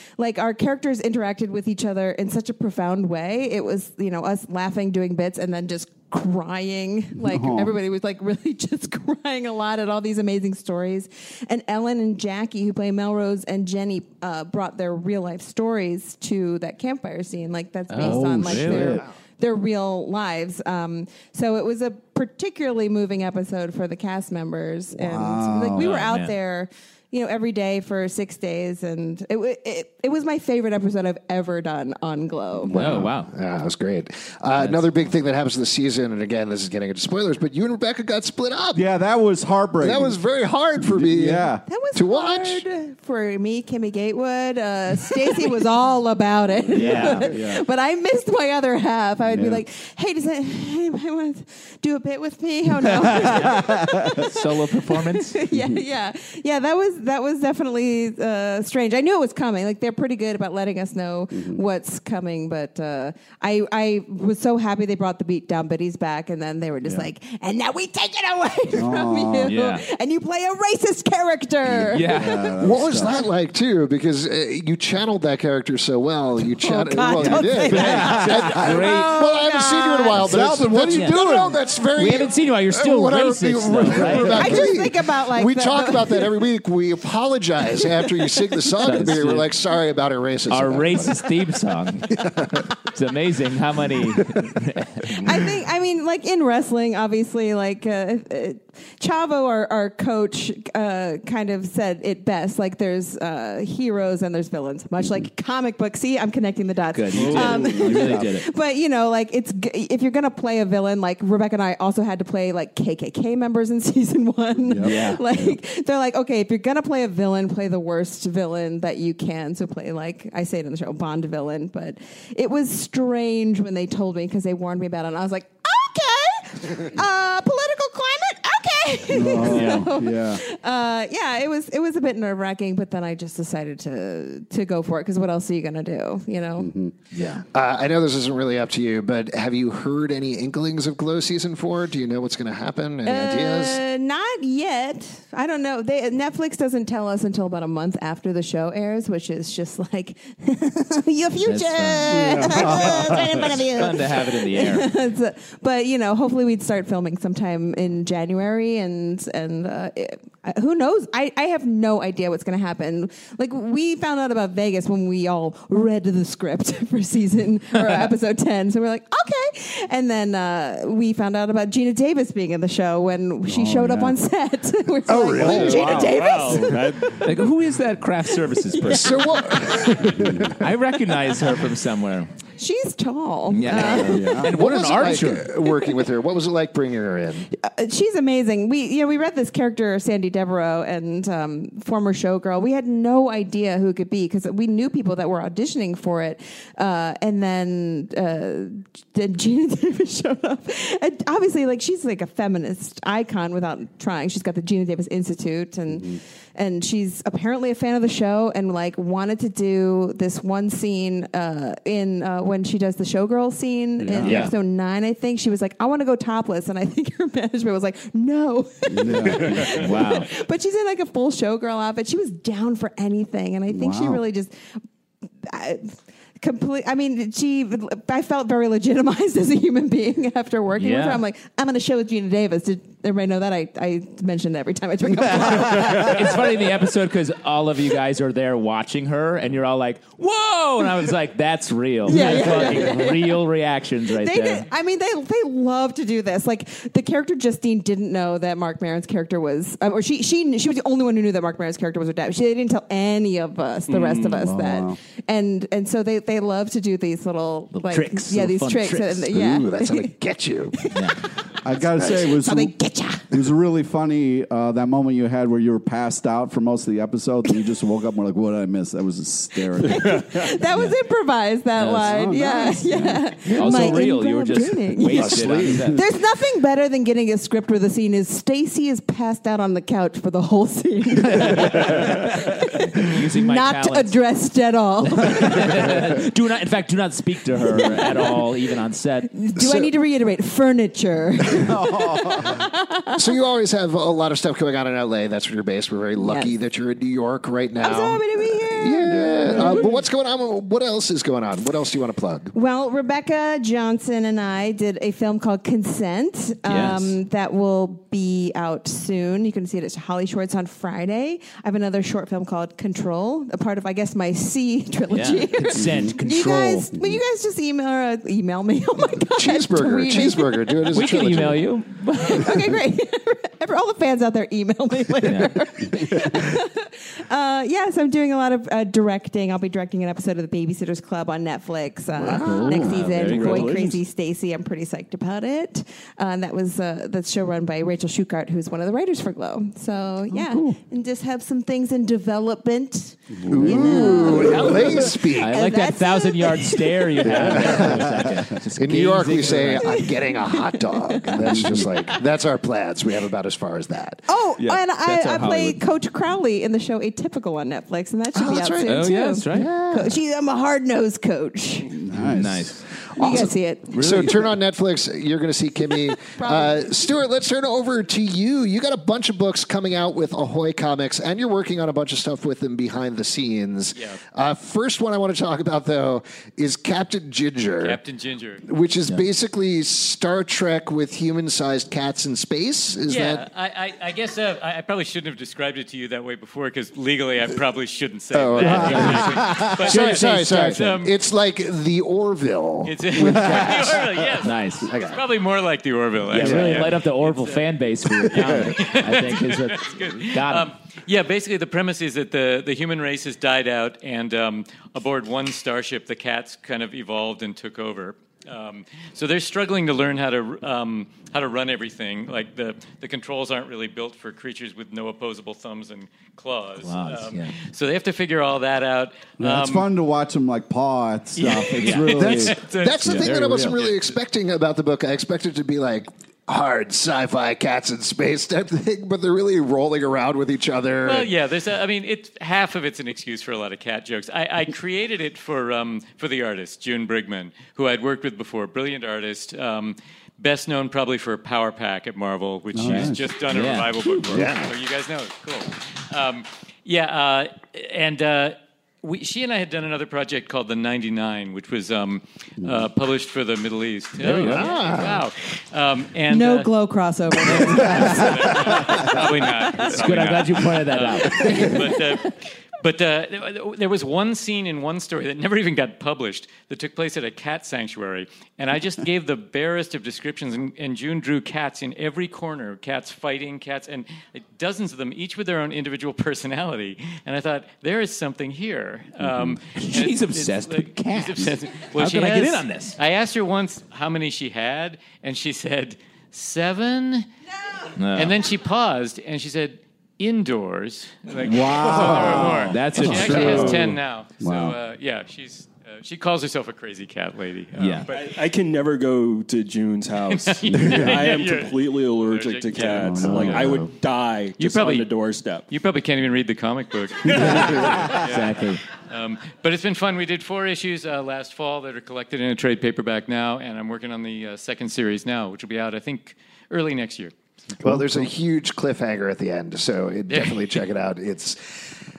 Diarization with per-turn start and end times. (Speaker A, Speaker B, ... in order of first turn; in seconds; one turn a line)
Speaker A: 0.2-32.8
Speaker B: 7.2-7.7
Speaker C: 17.9-19.0
Speaker B: 18.0-19.0
Speaker B: 24.9-25.9
Speaker C: 25.8-26.3
Speaker D: 32.7-38.8
Speaker C: 32.8-33.3
Speaker C: 34.6-34.9
Speaker B: 38.8-40.2
Speaker D: 39.8-42.6
Speaker B: 40.8-41.6
Speaker A: 41.7-72.6
Speaker C: 46.7-47.3
Speaker B: 47.2-47.6
Speaker B: 49.3-49.6
Speaker C: 53.0-55.4
Speaker B: 53.4-54.0
Speaker B: 55.5-55.8
Speaker B: 61.3-61.6
Speaker B: 68.7-69.5
Speaker C: 69.5-69.8
Speaker B: 71.7-73.2
Speaker C: 71.9-72.5
Speaker D: 72.6-91.3
Speaker A: 76.6-80.2
Speaker C: 77.2-79.2
Speaker B: 77.2-78.6
Speaker B: 80.2-81.5
Speaker C: 80.8-84.7
Speaker A: 84.3-86.3
Speaker C: 88.8-89.5
Speaker C: 90.5-92.2
Speaker C: 92.8-95.5
Speaker A: 95.2-136.7
Speaker C: 106.9-108.5
Speaker B: 107.1-108.3
Speaker B: 114.7-115.5
Speaker C: 114.8-115.2
Speaker B: 129.1-130.4
Speaker C: 129.5-129.8
Speaker B: 136.6-136.9
Speaker C: 137.1-137.4
Speaker D: 137.5-143.8
Speaker A: 143.1-177.0
Speaker C: 151.5-154.9
Speaker B: 152.1-153.5
Speaker B: 173.5-174.2
Speaker D: 175.1-176.2
Speaker B: 175.4-176.1
Speaker E: 175.6-177.4
Speaker C: 177.2-179.3
Speaker A: 178.8-179.8
Speaker D: 178.8-180.5
Speaker B: 180.2-180.6
Speaker C: 180.6-182.3
Speaker A: 182.6-184.4
Speaker C: 183.5-185.5
Speaker D: 183.9-187.5
Speaker B: 184.1-184.5
Speaker A: 187.5-224.5
Speaker B: 205.9-206.2
Speaker B: 214.0-214.5
Speaker C: 214.2-214.5
Speaker B: 218.9-219.8
Speaker C: 219.6-220.3
Speaker B: 223.7-224.2
Speaker A: 225.4-236.5
Speaker C: 230.8-231.2
Speaker C: 235.3-244.7
Speaker A: 242.1-243.4
Speaker A: 244.2-260.1
Speaker E: 253.9-254.4
Speaker B: 254.4-255.0
Speaker C: 257.7-259.3
Speaker D: 259.3-260.8
Speaker A: 260.8-261.2
Speaker C: 260.9-261.2
Speaker B: 261.6-262.7
Speaker A: 262.0-263.3
Speaker B: 263.3-270.5
Speaker A: 269.8-286.0
Speaker B: 271.8-273.2
Speaker C: 273.5-276.0
Speaker D: 275.1-275.9
Speaker C: 281.3-284.1
Speaker C: 285.2-289.3
Speaker A: 287.7-288.4
Speaker A: 289.3-293.2
Speaker D: 289.6-289.9
Speaker B: 291.6-292.6
Speaker D: 293.2-302.5
Speaker A: 296.2-296.5
Speaker A: 297.8-299.9
Speaker B: 299.1-299.8
Speaker A: 302.5-320.8
Speaker C: 306.6-307.2
Speaker C: 315.1-316.9
Speaker B: 315.8-316.2
Speaker D: 319.4-321.7
Speaker C: 320.9-322.5
Speaker A: 322.2-347.8
Speaker C: 325.2-325.6
Speaker B: 332.2-333.3
Speaker D: 332.2-332.8
Speaker C: 332.8-333.8
Speaker E: 333.1-334.0
Speaker B: 340.3-340.7
Speaker B: 343.3-345.0
Speaker D: 343.5-345.6
Speaker C: 344.4-344.7
Speaker C: 345.3-350.1
Speaker D: 347.2-354.2
Speaker B: 347.9-348.3
Speaker A: 349.8-352.2
Speaker B: 351.4-351.9
Speaker A: 354.3-361.9
Speaker C: 354.6-355.8
Speaker D: 358.3-360.1
Speaker C: 358.9-359.7
Speaker B: 361.9-362.8
Speaker C: 362.3-362.9
Speaker A: 363.2-364.0
Speaker D: 363.2-378.0
Speaker C: 363.9-364.5
Speaker A: 365.9-366.9
Speaker F: 377.8-378.6
Speaker D: 378.7-383.4
Speaker F: 383.1-391.1
Speaker D: 388.3-395.2
Speaker B: 388.6-389.8
Speaker C: 388.7-389.4
Speaker C: 390.0-390.8
Speaker F: 392.9-397.7
Speaker B: 393.2-393.7
Speaker C: 394.4-394.9
Speaker C: 396.3-400.7
Speaker D: 396.4-397.0
Speaker F: 398.2-419.9
Speaker C: 416.8-417.6
Speaker B: 419.4-422.6
Speaker F: 421.4-424.0
Speaker C: 421.8-422.4
Speaker D: 422.1-431.3
Speaker C: 423.1-423.7
Speaker B: 423.1-423.7
Speaker F: 431.0-456.7
Speaker B: 442.7-443.3
Speaker C: 442.8-444.4
Speaker D: 444.3-444.7
Speaker C: 454.2-455.1
Speaker D: 454.4-455.2
Speaker A: 456.3-459.1
Speaker F: 457.5-487.3
Speaker C: 459.8-461.8
Speaker A: 461.3-461.9
Speaker C: 479.8-483.0
Speaker C: 488.0-488.4
Speaker F: 488.1-498.4
Speaker B: 491.4-494.8
Speaker C: 491.9-493.9
Speaker C: 497.8-498.1
Speaker E: 498.1-505.7
Speaker F: 500.3-503.3
Speaker B: 500.7-501.2
Speaker B: 503.0-503.8
Speaker D: 503.3-503.6
Speaker F: 504.6-505.1
Speaker F: 505.7-517.3
Speaker B: 507.3-508.1
Speaker C: 507.4-508.8
Speaker D: 517.8-521.6
Speaker F: 520.3-520.8